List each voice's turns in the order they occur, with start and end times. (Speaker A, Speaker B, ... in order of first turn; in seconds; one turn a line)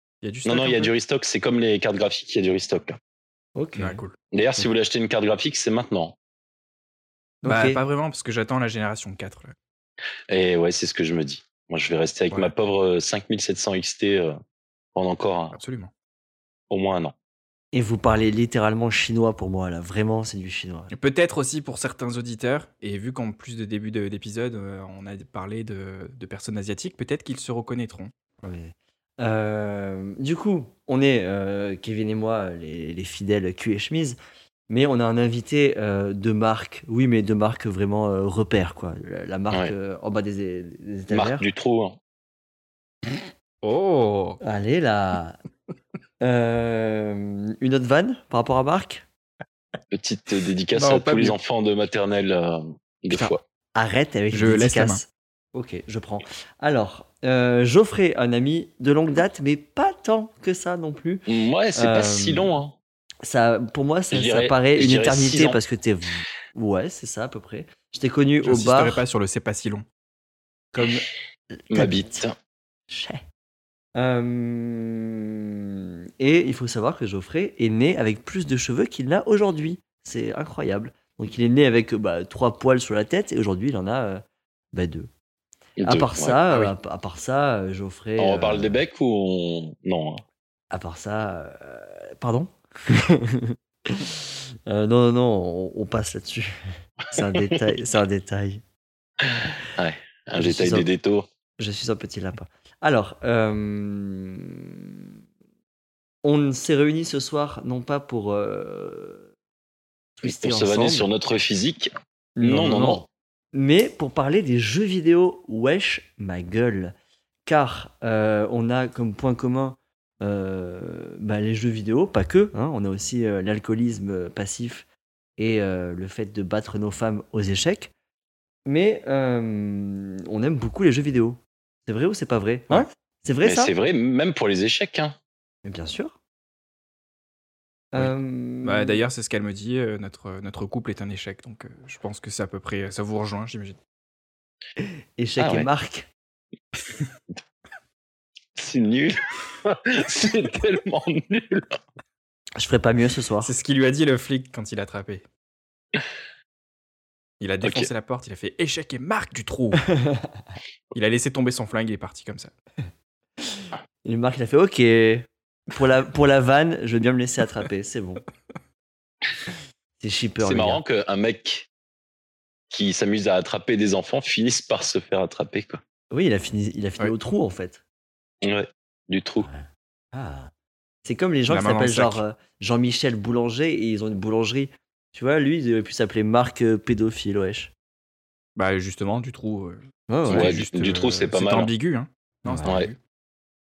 Speaker A: 0.2-0.9
Speaker B: 0.5-3.0
Speaker C: 3.6-4.0
Speaker A: 3.8-4.2
Speaker B: 4.3-6.2
Speaker C: 7.4-7.8
Speaker A: 7.5-9.6
Speaker B: 10.3-14.4
Speaker B: 14.9-15.6
Speaker A: 15.6-15.9
Speaker B: 16.7-17.1
Speaker C: 17.7-20.9
Speaker A: 20.9-28.1
Speaker C: 28.4-34.2
Speaker C: 34.7-41.5
Speaker B: 41.1-42.0
Speaker A: 43.6-44.4
Speaker C: 44.4-45.4
Speaker C: 46.2-49.0
Speaker B: 49.9-53.4
Speaker A: 50.7-51.4
Speaker C: 53.8-62.5
Speaker A: 54.3-55.0
Speaker B: 61.3-62.8
Speaker C: 63.2-69.0
Speaker B: 64.1-65.6
Speaker A: 68.4-69.9
Speaker C: 70.7-72.2
Speaker B: 71.7-72.4
Speaker C: 72.9-73.2
Speaker C: 74.0-85.1
Speaker B: 85.8-86.4
Speaker C: 85.9-88.8
Speaker B: 88.2-90.2
Speaker C: 90.7-96.6
Speaker C: 97.1-98.6
Speaker B: 99.8-101.3
Speaker C: 100.3-100.9
Speaker C: 101.6-104.9
Speaker C: 106.2-109.3
Speaker C: 110.2-111.1
Speaker B: 110.2-113.0
Speaker C: 112.4-117.0
Speaker C: 117.5-124.9
Speaker C: 125.4-127.9
Speaker C: 128.7-133.7
Speaker B: 133.4-135.2
Speaker C: 135.7-136.2
Speaker C: 137.9-139.0
Speaker A: 138.6-143.8
Speaker C: 144.8-146.1
Speaker B: 145.4-145.7
Speaker B: 148.6-151.8
Speaker C: 152.6-153.5
Speaker A: 153.4-155.2
Speaker A: 157.4-159.9
Speaker B: 157.6-157.9
Speaker C: 159.9-160.4
Speaker A: 160.9-162.5
Speaker C: 163.5-168.2
Speaker C: 170.0-170.8
Speaker B: 170.4-171.7
Speaker B: 172.7-175.8
Speaker C: 176.1-177.8
Speaker B: 178.4-179.5
Speaker C: 179.4-180.5
Speaker C: 181.0-187.7
Speaker A: 181.5-182.2
Speaker A: 188.6-193.0
Speaker C: 190.1-190.6
Speaker B: 190.3-191.7
Speaker C: 192.4-192.8
Speaker B: 192.7-192.9